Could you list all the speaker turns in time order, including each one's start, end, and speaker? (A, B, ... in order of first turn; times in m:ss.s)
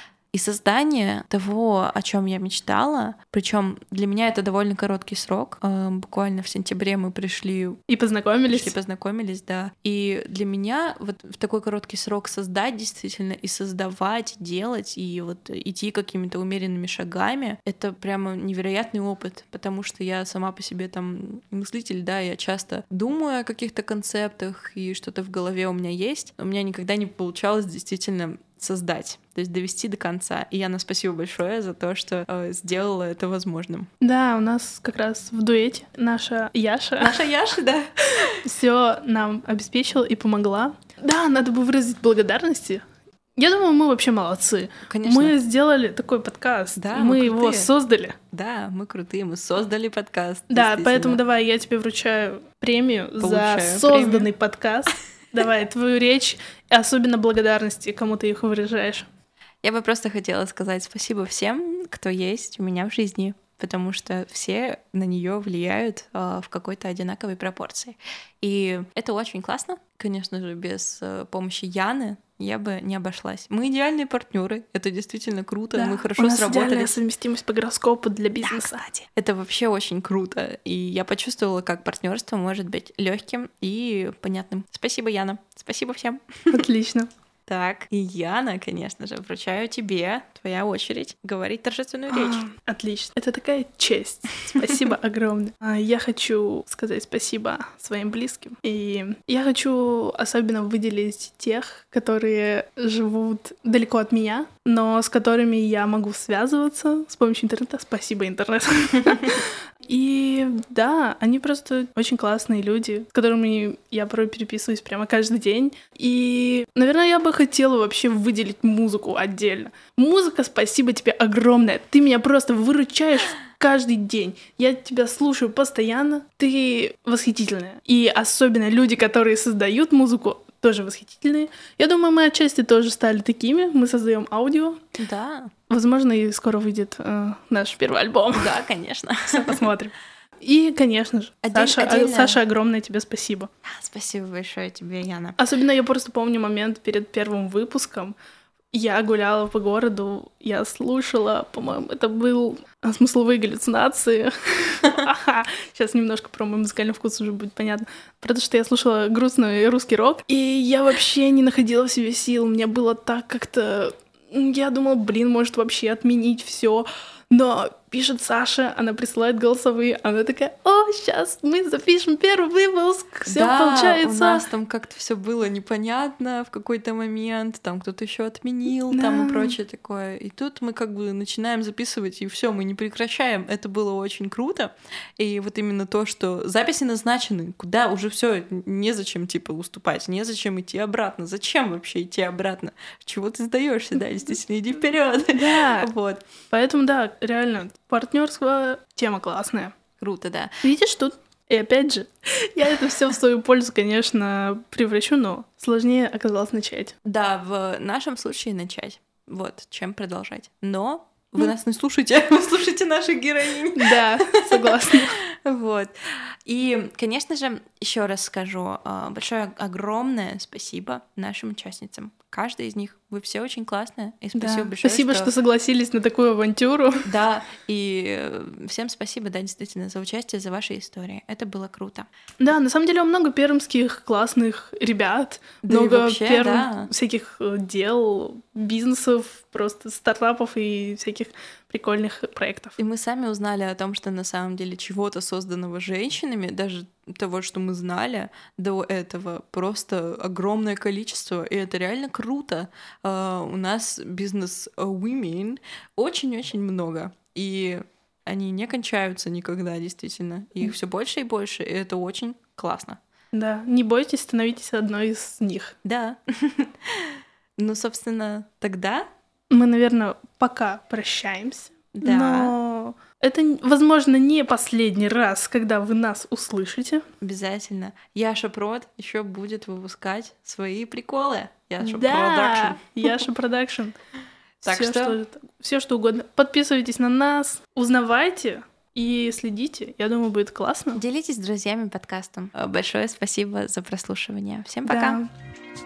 0:00.3-0:07.8 A
0:07.9-0:08.7 B
0:08.5-0:33.9 A
0:34.0-0:37.2 B
0:37.0-0:38.3 A
0:38.4-0:42.8 B
0:43.4-0:48.2 B
0:44.9-0:45.3 A
0:46.8-0:47.7 A
0:48.3-0:51.2 A
0:50.5-0:59.0 B
0:53.2-0:54.3 A
0:59.6-1:17.0 A
1:15.7-1:18.8 B
1:18.4-1:26.6 A
1:26.5-1:27.1 B
1:27.5-1:32.4 A
1:32.1-2:14.8 B
2:15.0-2:15.5 A
2:15.7-2:18.6 B
2:18.3-2:19.6 A
2:19.3-2:23.5 B
2:21.4-2:22.4 A
2:23.6-2:25.4 A
2:25.4-2:28.2 B
2:28.7-2:54.4 B
2:53.2-3:16.2 A
2:58.9-2:59.5 B
3:15.3-3:15.9 B
3:16.5-3:19.8 B
3:20.0-3:20.6 A
3:20.6-3:26.9 B
3:27.0-3:34.4 A
3:33.8-3:35.2 B
3:34.9-3:35.9 A
3:36.4-3:45.3 A
3:44.4-3:47.0 B
3:47.0-3:52.1 A
3:52.4-4:02.8 B
3:55.6-3:56.9 A
4:02.8-4:23.0 A
4:23.3-4:25.8 B
4:25.8-4:29.1 A
4:29.5-4:37.0 B
4:31.9-4:32.5 A
4:37.2-4:43.2 A
4:41.8-4:43.9 B
4:44.6-4:51.0 B
4:44.6-4:45.2 A
4:50.9-4:55.2 A
4:54.8-4:55.3 B